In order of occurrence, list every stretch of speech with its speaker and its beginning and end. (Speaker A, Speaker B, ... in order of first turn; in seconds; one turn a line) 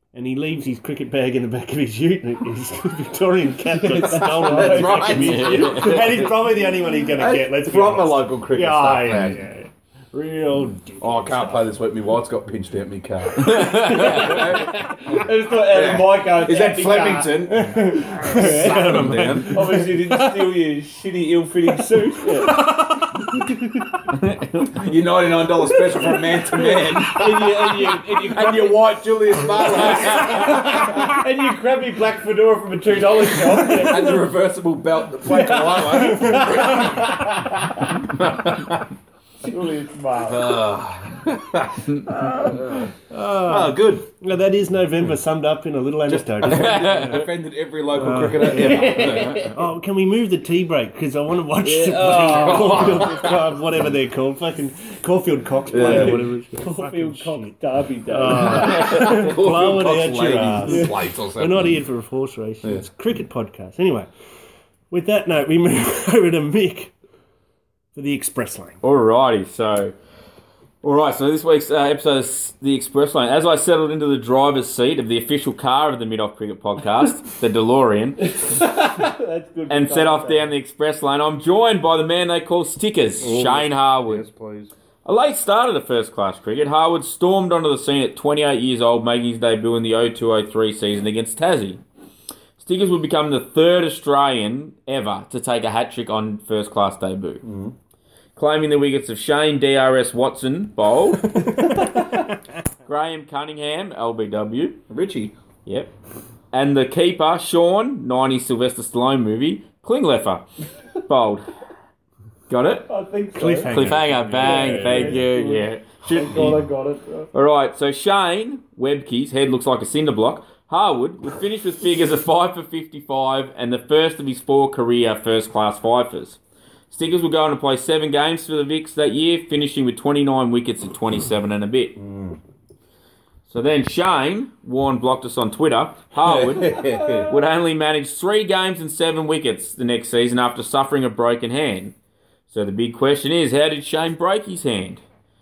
Speaker A: 0.1-11.7
Speaker B: 3.8-5.4
Speaker C: 4.2-6.3
Speaker D: 5.1-6.2
Speaker C: 7.1-9.4
Speaker C: 11.0-19.6
Speaker D: 13.4-14.5
Speaker B: 13.5-17.5
Speaker A: 17.5-20.5
Speaker B: 18.2-22.7
Speaker A: 21.7-23.6
Speaker D: 24.1-24.7
Speaker C: 24.8-31.1
Speaker B: 25.9-29.0
Speaker B: 29.6-34.3
Speaker C: 33.5-37.2
Speaker B: 35.2-38.0
Speaker C: 38.1-38.9
Speaker B: 39.4-40.7
Speaker C: 40.3-42.9
Speaker A: 43.1-47.2
Speaker C: 43.5-44.1
Speaker C: 46.1-49.5
Speaker D: 46.4-47.3
Speaker A: 47.9-57.5
Speaker B: 48.4-49.6
Speaker B: 51.6-53.4
Speaker C: 52.1-53.3
Speaker C: 55.7-56.2
Speaker B: 55.8-59.1
Speaker A: 58.1-64.1
Speaker C: 58.6-61.8
Speaker B: 60.7-60.9
Speaker A: 64.9-66.9
Speaker A: 68.0-68.8
Speaker D: 68.8-70.0
Speaker D: 70.8-78.6
Speaker B: 78.3-80.5
Speaker D: 79.7-84.3
Speaker C: 83.2-84.7
Speaker D: 85.0-91.8
Speaker D: 92.6-97.4
Speaker C: 97.4-97.7
Speaker D: 98.4-102.0
Speaker D: 102.9-104.8
Speaker C: 104.9-105.3
Speaker D: 105.7-105.9
Speaker D: 106.5-110.5
Speaker D: 111.0-111.5
Speaker D: 112.5-112.9
Speaker B: 112.9-117.3
Speaker A: 113.3-115.2
Speaker D: 113.7-116.7
Speaker D: 117.3-126.4
Speaker D: 126.9-132.0
Speaker C: 132.0-132.4
Speaker D: 133.5-141.9
Speaker C: 136.2-137.3
Speaker D: 142.5-145.0